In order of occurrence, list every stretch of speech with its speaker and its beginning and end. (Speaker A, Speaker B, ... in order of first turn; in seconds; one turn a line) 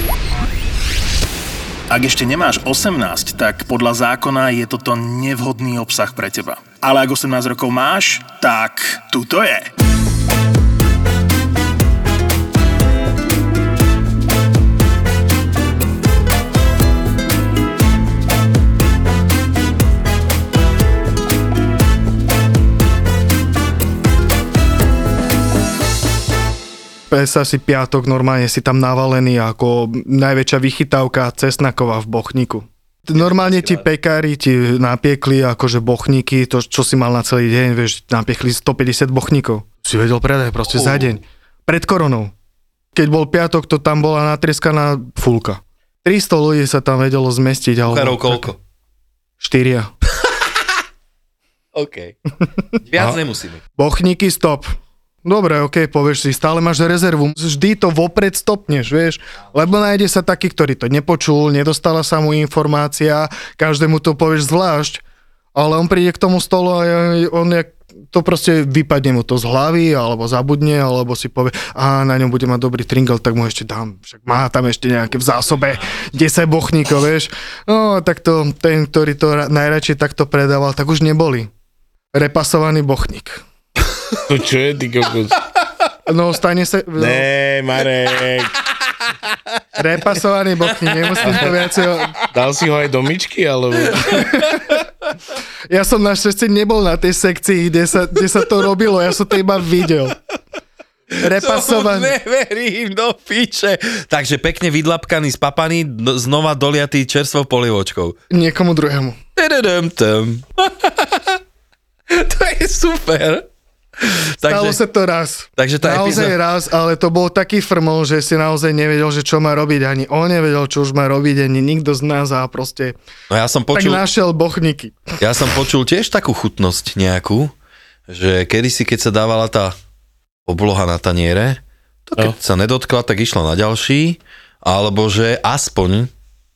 Speaker A: 1.9-9.7
Speaker B: 27.1-42.3
Speaker C: 33.1-33.8
Speaker C: 40.7-41.1
Speaker B: 42.9-48.5
Speaker C: 47.9-48.6
Speaker B: 49.4-49.9
Speaker C: 51.7-52.1
Speaker C: 52.9-53.6
Speaker B: 53.8-54.7
Speaker B: 55.2-65.0
Speaker B: 65.5-81.5
Speaker B: 82.1-83.4
Speaker D: 84.3-85.3
Speaker B: 86.0-87.3
Speaker D: 87.0-88.6
Speaker B: 89.8-92.2
Speaker D: 92.3-94.2
Speaker B: 94.0-94.6
Speaker C: 94.0-94.7
Speaker B: 95.7-100.2
Speaker C: 101.2-108.2
Speaker B: 101.2-102.1
Speaker B: 108.3-109.2
Speaker C: 109.3-111.4
Speaker C: 112.1-113.5
Speaker C: 114.0-114.8
Speaker B: 114.4-123.0
Speaker C: 115.6-116.3
Speaker C: 123.3-124.0
Speaker B: 123.7-125.0
Speaker C: 125.2-127.5
Speaker C: 128.1-129.7
Speaker C: 130.5-136.1